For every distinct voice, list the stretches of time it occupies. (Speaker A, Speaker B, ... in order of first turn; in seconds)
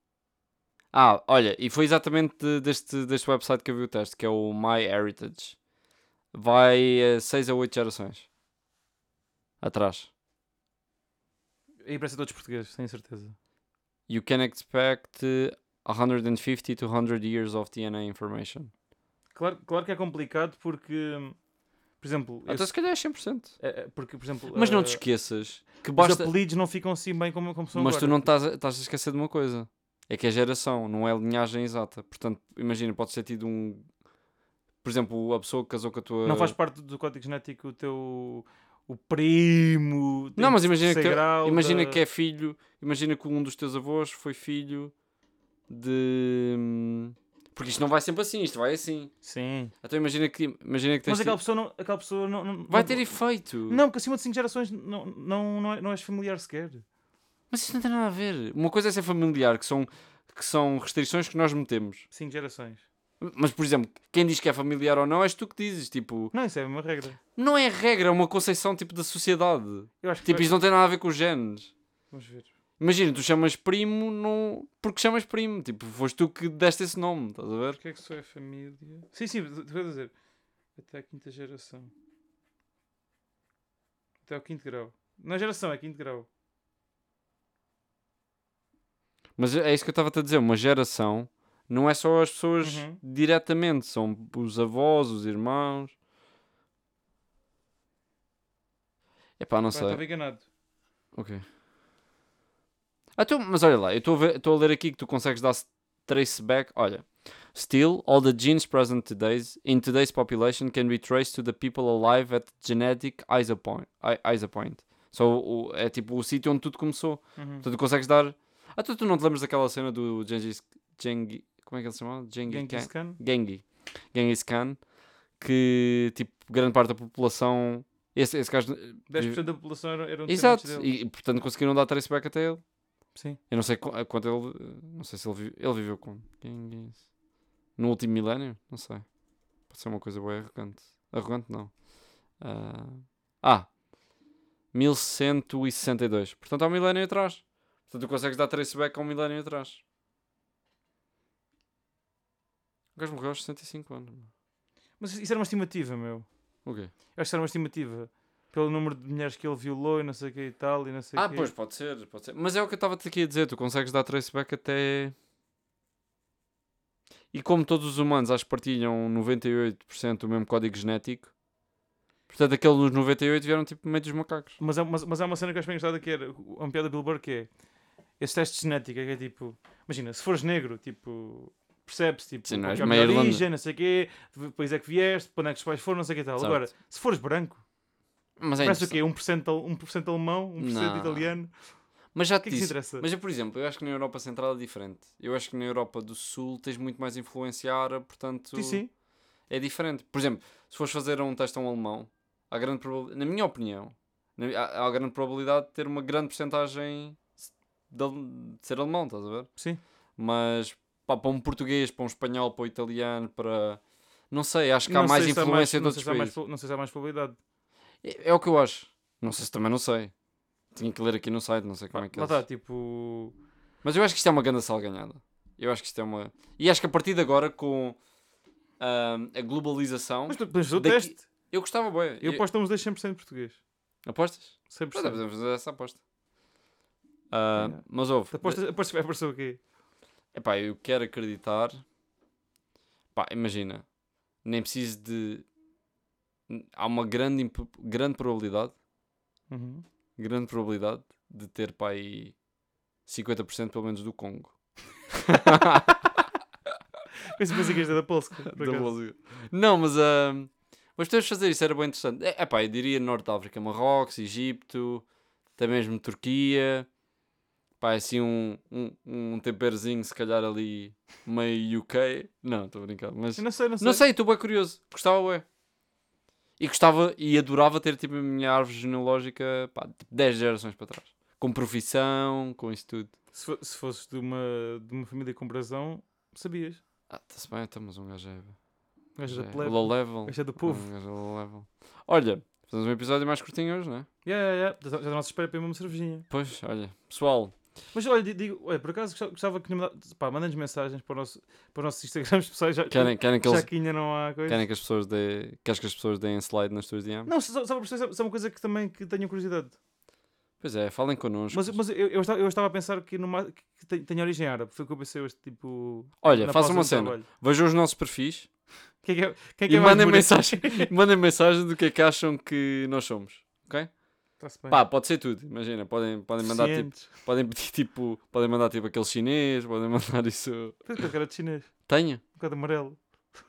Speaker A: 0.9-5.6, 6.3-8.3, 9.6-10.1, 14.1-18.7, 22.5-23.6, 24.5-26.3, 27.7-33.9, 34.8-36.5, 40.4-44.9, 45.7-49.1, 49.8-51.4, 52.7-53.8, 57.5-62.1, 63.2-66.3, 67.4-71.7, 72.8-77.8, 89.4-95.9, 99.4-100.0, 101.1-101.4, 103.2-124.8, 125.4-129.4, 130.3-132.6, 133.5-137.1, 137.8-139.1, 139.7-141.8, 142.4-143.7, 144.7-149.8, 153.0-154.3, 156.7-156.9, 161.2-165.2, 167.3-171.3, 172.3-174.6, 182.5-183.4, 186.4-186.7, 188.4-189.0, 190.6-191.3, 192.1-198.8, 199.5-209.5, 210.2-216.4, 218.0-220.1, 220.7-222.4, 223.8-228.0, 228.8-232.4, 234.1-236.0, 237.3-238.6, 240.3-241.8, 243.1-243.8, 244.4-245.5, 246.5-248.7, 250.2-252.4, 253.1-254.5, 255.1-256.3, 258.5-265.1, 265.6-266.9, 267.8-275.4, 276.6-283.1, 287.1-288.6, 289.3-294.1, 296.3-297.5, 302.9-303.7, 304.5-307.3, 310.6-311.8, 316.2-318.5, 319.7-323.9, 324.7-331.0, 331.9-332.2
Speaker B: 11.8-13.3, 19.4-21.4, 22.0-22.7, 23.6-25.0, 26.0-28.3, 36.2-42.0, 49.2-49.7, 51.0-56.9, 62.1-62.8, 66.3-67.2, 70.0-70.6, 72.1-72.5, 77.7-80.1, 80.8-81.9, 84.3-86.3, 92.6-93.0, 99.7-100.5, 117.4-117.7, 122.5-123.2, 129.1-130.9, 155.0-156.3, 157.2-161.5, 174.6-177.5, 178.2-187.6, 188.6-191.5, 192.4-193.1, 198.5-198.9, 214.9-217.4, 221.9-223.4, 230.3-231.3, 232.2-233.6, 234.7-235.2, 237.6-239.6, 249.5-249.8, 257.2-258.9, 273.4-274.0, 283.3-286.8, 289.2-290.9, 294.2-296.3, 297.9-304.6, 307.3-309.8, 311.5-317.3, 319.0-320.9, 324.4-324.8, 326.4-327.1, 330.9-331.8, 332.3-333.0